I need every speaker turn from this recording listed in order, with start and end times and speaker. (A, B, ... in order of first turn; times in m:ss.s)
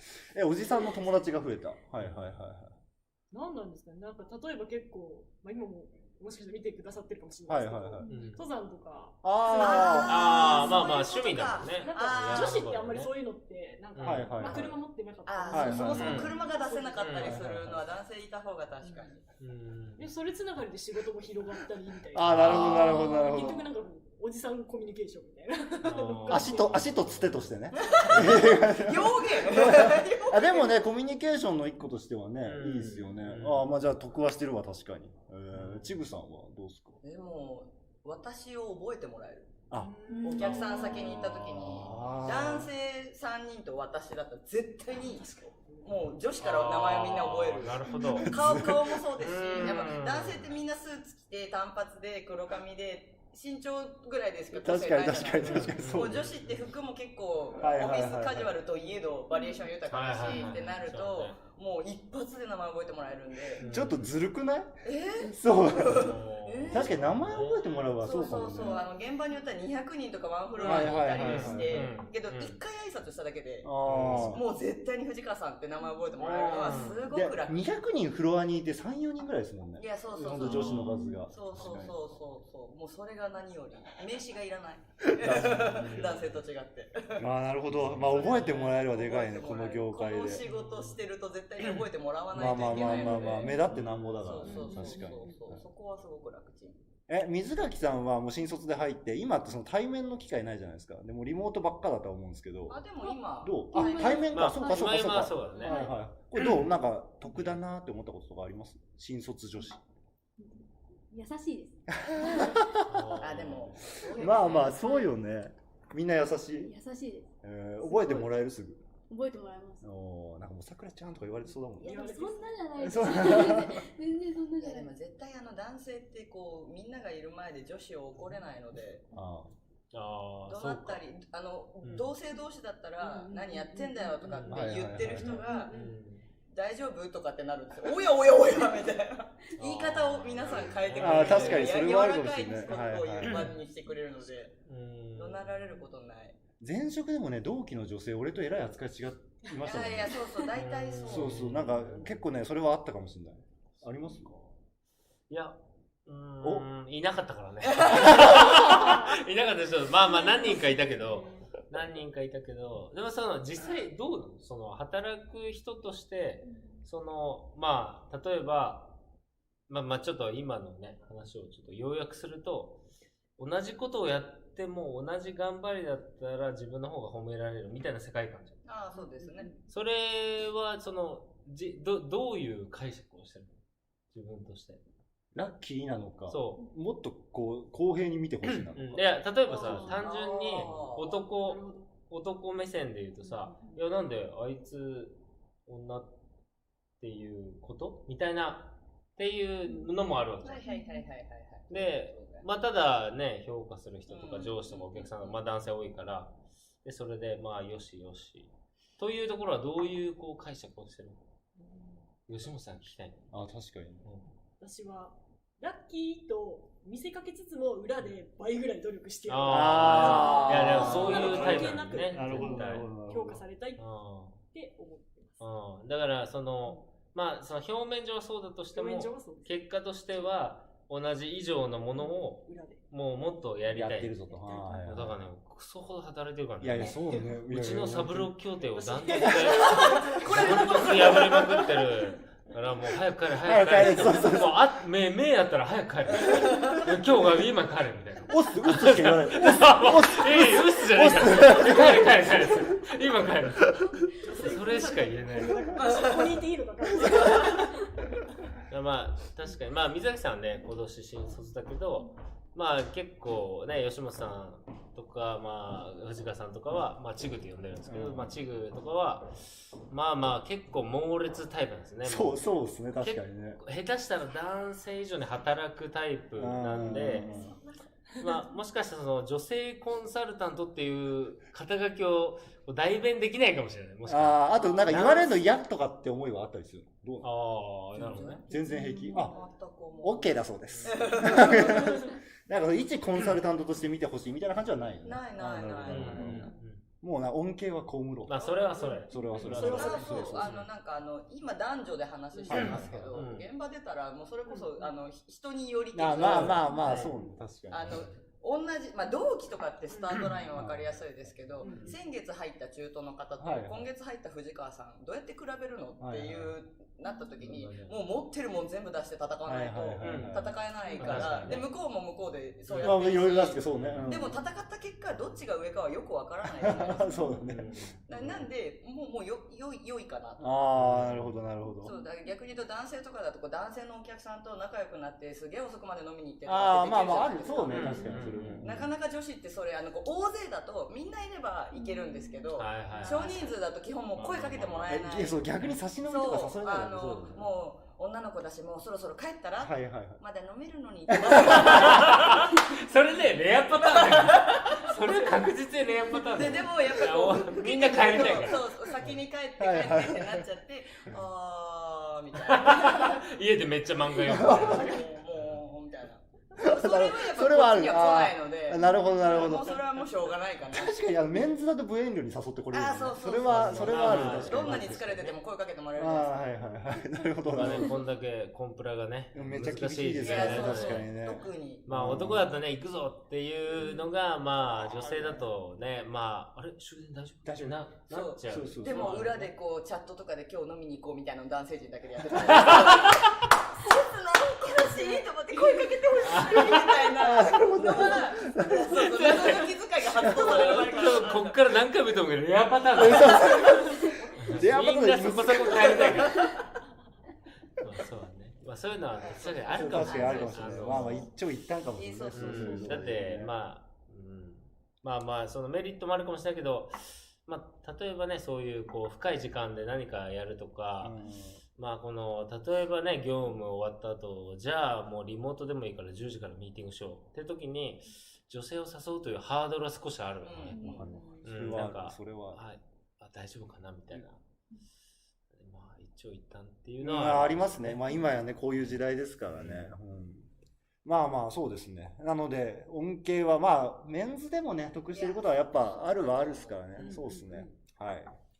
0:00.3-0:02.8 A
0:02.0-0:02.3 B
0:03.3-0:11.0 C
0:07.5-0:08.1 A
0:08.0-0:08.3 D
0:08.1-0:08.4 B
0:09.2-0:10.4 A
0:09.5-0:12.7 E
0:10.0-0:13.1 B
0:11.6-0:17.4 C
0:14.0-0:14.7 B
0:14.0-0:14.8 A
0:15.3-0:19.2 E
0:15.5-0:16.3 A
0:15.9-0:16.4 B
0:17.0-0:17.8 B
0:17.2-0:17.7 A
0:18.8-0:19.1 C
0:19.4-0:20.1 B
0:20.0-0:26.8 C
0:22.1-0:23.7 A
0:22.3-0:23.2 B
0:25.8-0:27.5 B
0:26.3-0:37.0 A
0:27.8-0:30.7 E
0:28.1-0:28.4 B
0:32.4-0:33.7 B
0:35.5-0:36.0 B
0:37.0-0:39.6 E
0:39.8-0:41.2 C
0:40.1-0:41.0 D
0:40.2-0:45.3 E
0:40.3-0:42.2 B
0:41.6-0:42.7 A
0:44.9-0:46.2 C
0:45.8-1:03.7 E
0:46.4-0:48.3 B
0:47.9-0:48.3 D
0:48.2-0:49.0 A
0:49.2-0:50.5 B
0:54.5-0:56.3 A
0:55.4-0:56.7 B
0:57.6-0:58.5 A
0:59.9-1:01.4 B
1:03.6-1:04.1 B
1:03.6-1:06.2 A
1:04.8-1:07.3 E
1:05.9-1:08.1 B
1:06.7-1:08.8 A
1:08.0-1:17.6 E
1:08.5-1:08.9 C
1:10.6-1:11.9 A
1:10.6-1:12.6 B
1:13.6-1:14.4 A
1:13.8-1:14.4 B
1:16.2-1:17.1 B
1:17.1-1:22.0 A
1:19.8-1:27.3 E
1:20.4-1:21.0 B
1:25.0-1:26.0 A
1:25.3-1:26.4 B
1:27.2-1:30.4 A
1:27.7-1:28.6 B
1:27.9-1:36.8 E
1:30.4-1:31.0 B
1:32.3-1:35.6 A
1:32.4-1:32.9 B
1:32.5-1:33.6 C
1:33.7-1:34.4 B
1:34.4-1:35.4 C
1:37.1-1:42.8 A
1:42.7-1:44.3 E
1:43.4-1:49.8 A
1:43.7-1:44.8 D
1:44.3-1:46.7 B
1:45.6-1:46.0 D
1:47.2-1:47.6 B
1:50.4-1:52.8 D
1:51.9-1:52.9 A
1:52.9-1:54.7 B
1:53.2-1:54.8 E
1:54.1-1:56.7 A
1:54.7-1:55.1 D
1:56.6-1:57.3 D
1:57.4-1:58.8 A
1:57.8-1:58.4 D
1:59.1-1:59.8 D
1:59.8-2:02.1 A
2:01.8-2:03.4 C
2:01.8-2:04.9 D
2:02.8-2:03.8 A
2:04.6-2:09.0 E
2:09.1-2:09.5 A
2:09.9-2:11.0 B
2:10.5-2:15.7 E
2:11.8-2:12.1 B
2:13.0-2:14.5 C
2:14.2-2:16.3 B
2:14.5-2:15.4 A
2:15.2-2:16.0 C
2:16.5-2:24.6 E
2:19.6-2:21.8 B
2:21.0-2:23.5 A
2:23.2-2:23.6 B
2:24.6-2:25.8 B
2:25.2-2:26.4 E
2:26.6-2:30.2 A
2:29.6-2:31.5 E
2:30.5-2:32.2 B
2:31.0-2:34.4 A
2:35.3-2:49.0 B
2:36.4-2:36.7 A
2:37.7-2:38.4 E
2:37.9-2:38.8 A
2:38.8-2:39.1 C
2:40.0-2:41.5 C
2:49.7-2:52.8 B
2:53.4-2:58.6 B
2:58.6-2:59.5 E
2:58.9-2:59.6 C
2:59.7-3:03.5 B
3:04.1-3:04.8 B
3:05.3-3:09.1 A
3:06.3-3:06.6 B
3:08.5-3:16.1 B
3:09.5-3:11.2 E
3:09.5-3:10.1 C
3:09.6-3:09.9 A
3:11.4-3:11.9 C
3:13.2-3:13.9 C
3:17.0-3:20.6 B
3:20.4-3:22.5 E
3:20.7-3:21.0 D
3:21.7-3:31.2 B
3:24.1-3:25.4 E
3:31.6-3:32.1 C
3:32.3-3:33.3 B
3:33.3-3:34.1 A
3:34.0-3:34.3 B
3:34.6-3:43.8 C
3:39.3-3:42.9 B
3:39.5-3:43.4 A
3:43.8-3:44.4 B
3:44.4-3:45.4 C
3:45.4-3:54.2 B
3:48.7-3:50.3 C
3:52.0-3:52.8 C
3:53.7-3:55.2 A
3:54.3-3:54.9 C
3:54.8-4:13.8 B
3:56.6-3:58.3 A
3:56.8-3:57.3 C
3:58.7-4:01.6 C
3:59.6-4:01.6 E
4:00.3-4:00.7 A
4:03.4-4:04.6 A
4:06.4-4:06.8 E
4:08.3-4:12.6 A
4:13.6-4:14.0 A
4:14.2-4:18.2 C
4:14.4-4:15.6 B
4:15.8-4:16.3 E
4:17.1-4:17.4 A
4:18.7-4:32.4 B
4:27.9-4:28.4 A
4:32.0-4:33.6 A
4:33.0-4:37.3 B
4:36.4-4:37.6 A
4:38.2-4:45.4 B
4:44.1-4:47.3 A
4:44.6-4:45.0 E
4:47.2-4:48.4 B
4:48.0-4:52.1 E
4:48.5-4:49.4 A
4:48.5-4:49.5 C
4:50.0-4:58.5 A
4:50.7-4:51.1 B
4:51.4-4:51.9 C
4:55.0-4:56.5 E
4:55.9-4:56.8 B
4:58.3-5:00.7 B
4:58.5-4:59.0 E
4:58.8-5:00.3 C
4:59.1-5:00.6 A
4:59.5-5:07.0 E
5:02.3-5:02.7 C
5:02.5-5:03.2 A
5:02.5-5:03.5 B
5:04.5-5:05.0 C
5:05.9-5:08.1 A
5:06.2-5:07.2 B
5:06.6-5:07.4 C
5:07.7-5:27.2 E
5:09.9-5:10.3 C
5:10.5-5:11.6 A
5:11.6-5:12.0 C
5:11.6-5:12.0 B
5:13.4-5:13.9 A
5:16.0-5:16.6 A
5:17.4-5:18.0 B
5:19.4-5:20.6 A
5:20.0-5:21.7 B
5:20.8-5:21.6 C
5:21.2-5:21.5 A
5:22.7-5:23.1 B
5:22.8-5:24.4 A
5:23.6-5:24.2 B
5:26.6-5:27.7 A
5:27.4-5:28.5 B
5:28.1-5:30.7 E
5:30.4-5:31.9 A
5:30.8-5:31.4 B
5:31.8-5:45.4 E
5:36.4-5:38.9 A
5:37.7-5:38.7 B
5:37.9-5:38.6 C
5:41.8-5:42.5 D
5:42.6-5:43.4 B
5:42.9-5:43.5 C
5:44.2-5:45.0 B
5:44.9-5:47.5 A
5:46.0-5:52.8 E
5:49.6-5:50.2 A
5:51.2-5:52.0 A
5:51.3-5:59.2 B
5:53.8-5:55.3 E
5:56.2-6:03.2 E
5:59.6-6:00.4 A
6:02.4-6:05.6 B
6:04.2-6:05.0 A
6:04.3-6:11.0 E
6:06.6-6:09.8 A
6:10.7-6:15.3 A
6:12.7-6:16.5 E
6:13.4-6:15.4 B
6:16.0-6:18.0 A
6:17.5-6:21.1 B
6:19.3-6:22.5 A
6:20.2-6:21.9 E
6:21.9-6:29.5 B
6:23.8-6:24.1 C
6:24.8-6:25.5 A
6:27.4-6:27.8 A
6:28.1-6:41.7 E
6:28.4-6:29.2 A
6:32.4-6:33.3 B
6:35.1-6:36.0 D
6:36.2-6:36.9 B
6:37.1-6:39.4 A
6:38.9-6:43.7 B
6:40.2-6:40.8 A
6:42.9-6:46.4 A
6:43.3-6:44.3 E
6:44.4-6:46.5 B
6:45.7-6:46.5 E
6:47.8-6:51.3 B
6:49.2-6:51.2 E
6:49.7-6:53.5 A
6:51.9-6:53.2 E
6:52.3-7:01.2 B
7:01.0-7:01.6 A
7:01.8-7:10.8 B
7:10.4-7:11.1 E
7:10.7-7:11.1 D
7:10.8-7:12.6 A
7:11.0-7:11.5 C
7:11.4-7:14.4 B
7:15.5-7:18.0 B
7:17.0-7:20.5 A
7:18.8-7:19.9 B
7:21.0-7:28.3 A
7:25.1-7:27.1 E
7:27.0-7:27.8 C